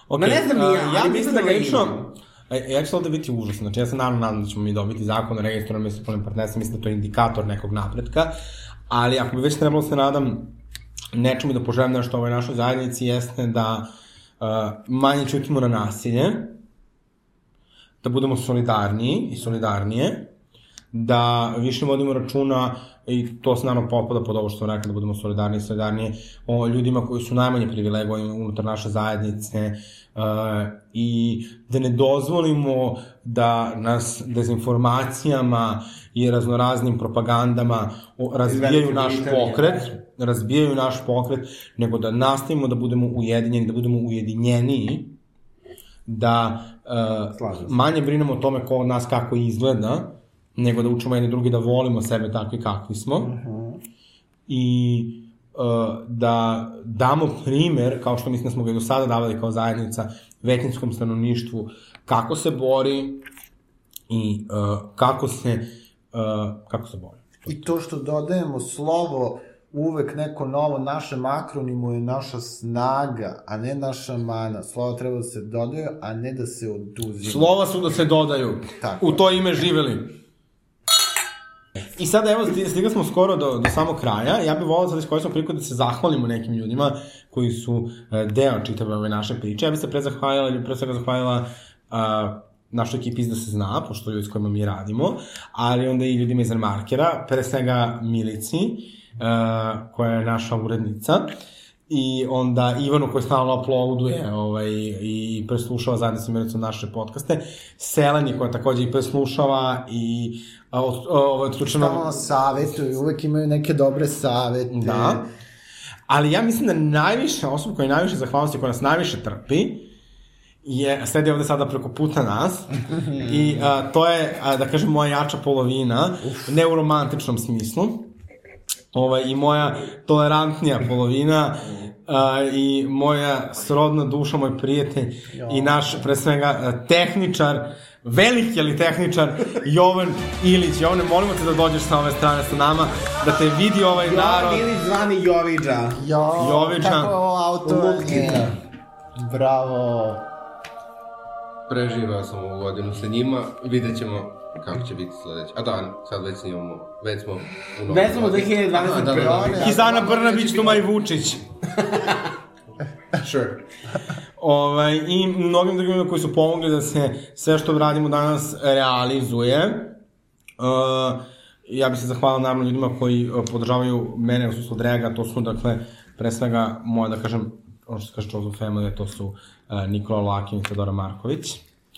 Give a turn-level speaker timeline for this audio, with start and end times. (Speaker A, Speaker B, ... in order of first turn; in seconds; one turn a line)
Speaker A: 0.1-8.3
Speaker B: 0.2-2.1
Speaker A: 8.9-10.5
Speaker A: 11.1-16.6
Speaker A: 18.0-20.3
Speaker A: 20.9-45.2
Speaker B: 38.5-39.9
Speaker A: 46.1-53.3
Speaker B: 47.4-47.7
Speaker C: 53.2-53.8
Speaker A: 54.5-63.2
Speaker A: 64.1-67.7
Speaker C: 67.5-77.6
Speaker A: 77.2-80.2
Speaker C: 78.8-79.2
Speaker A: 82.0-101.3
Speaker A: 101.9-112.2
Speaker C: 111.8-115.3
Speaker A: 114.7-115.2
Speaker A: 116.1-119.9
Speaker A: 120.6-128.1
Speaker A: 128.9-144.7
Speaker C: 135.3-136.1
Speaker B: 144.0-146.0
Speaker C: 145.9-148.6
Speaker A: 146.4-147.1
Speaker A: 147.7-148.6
Speaker C: 149.2-150.2
Speaker D: 151.7-159.7
Speaker B: 157.9-159.8
Speaker C: 158.9-160.9
Speaker A: 159.6-161.5
Speaker B: 161.8-162.2
Speaker D: 163.2-163.6
Speaker A: 164.4-170.0
Speaker A: 170.6-181.6